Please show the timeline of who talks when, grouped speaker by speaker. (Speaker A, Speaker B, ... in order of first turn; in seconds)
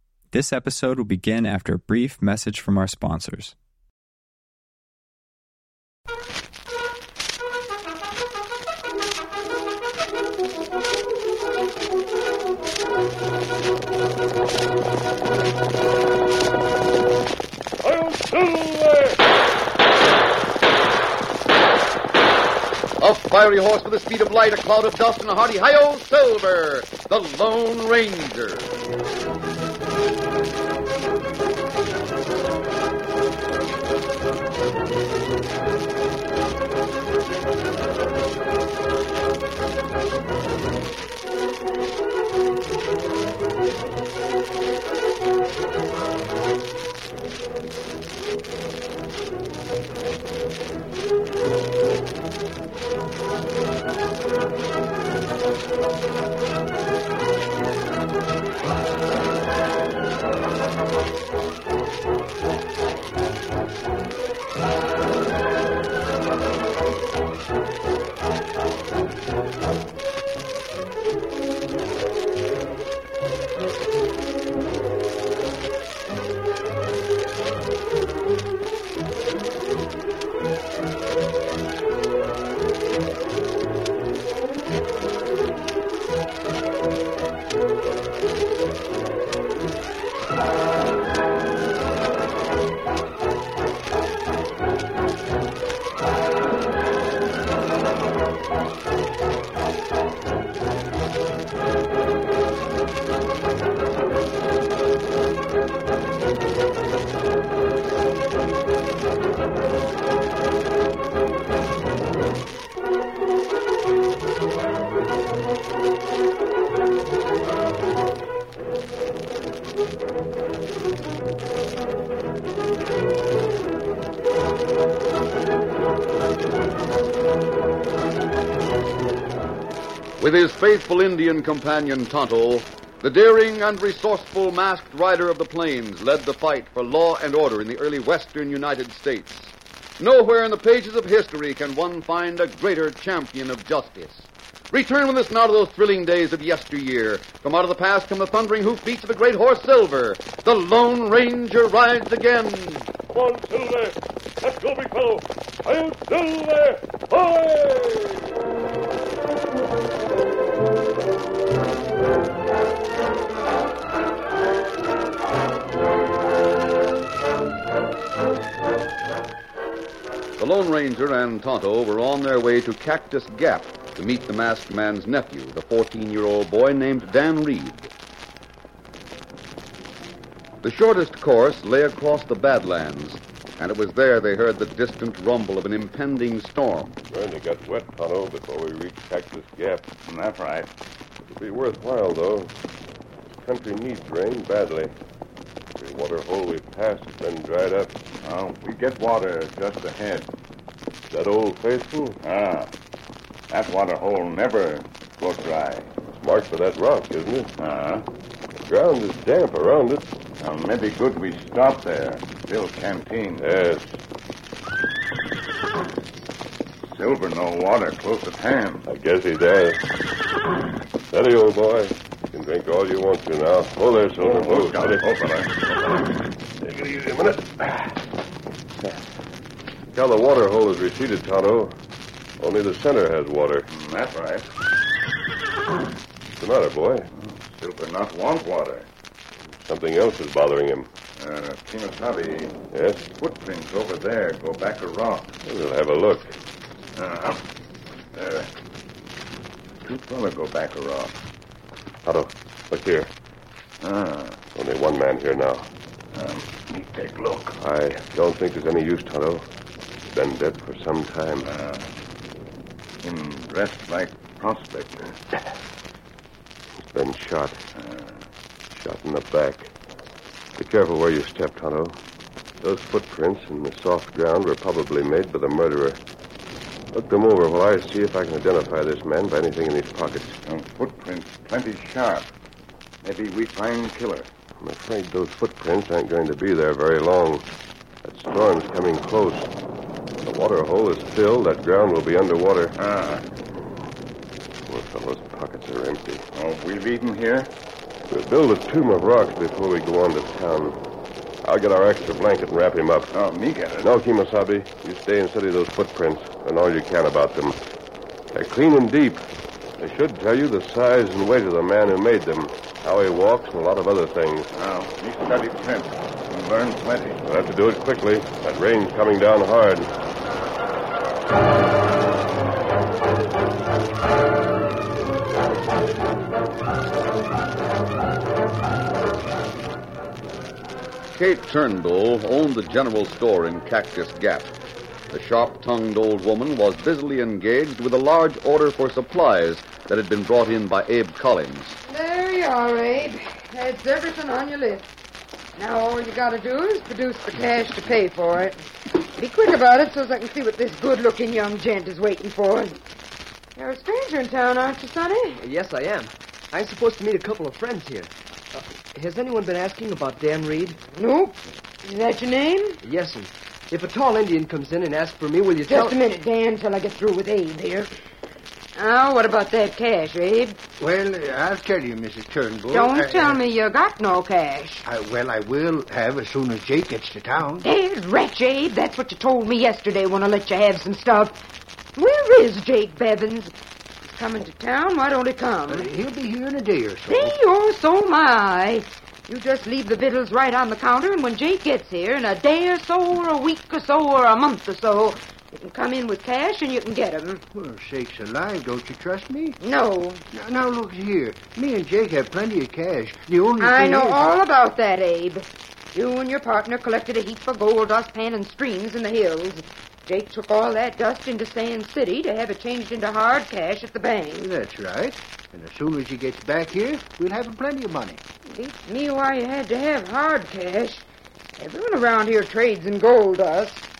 Speaker A: 0.3-3.5
Speaker B: 23.0-28.7, 130.2-152.9, 170.4-177.9, 180.6-187.0, 331.2-334.5, 335.1-341.8
Speaker C: 153.1-158.2, 187.1-189.9, 191.2-192.5, 193.3-194.9, 195.8-197.9, 201.1-202.2, 206.1-207.5, 208.6-210.1, 213.4-213.9, 218.9-219.8, 221.1-225.1, 229.9-231.7, 232.4-233.7, 236.4-237.1, 239.6-240.9, 242.7-243.1, 245.4-246.3, 252.0-253.1, 254.5-255.7, 257.6-259.5, 260.1-261.5, 266.8-267.6, 268.7-269.7, 270.6-272.0, 272.6-276.0, 276.9-280.4, 284.6-287.5, 288.0-289.5, 290.2-292.8, 294.6-296.2, 298.1-300.8, 301.4-303.1, 303.8-307.6, 308.3-309.2, 309.8-314.5, 317.2-319.9
Speaker D: 190.1-190.7, 198.2-200.3, 202.2-202.7, 203.5-205.9, 207.6-208.1, 210.4-213.5, 216.9-218.8, 224.2-226.3, 233.7-234.5, 237.1-238.9, 241.2-242.6, 243.2-245.4, 247.0-247.4, 248.1-248.5, 249.8-251.2, 253.8-254.5, 256.1-257.6, 261.4-261.9, 263.0-265.2, 267.8-268.2, 280.4-282.3, 283.0-284.3, 292.8-293.2, 296.3-297.5, 303.1-303.9, 314.5-317.2
Speaker E: 341.9-344.9, 345.6-352.8, 353.6-355.5, 360.9-362.8, 365.7-367.9, 368.8-370.6, 372.7-374.9, 377.6-381.4, 382.0-385.9, 387.1-397.4, 399.6-400.2, 403.6-414.5, 418.5-421.1, 421.6-423.9
Speaker F: 355.4-360.8, 362.8-365.9
Speaker G: 370.8-373.4, 374.9-377.7, 385.7-387.4, 397.5-399.6, 400.3-404.4, 414.4-418.2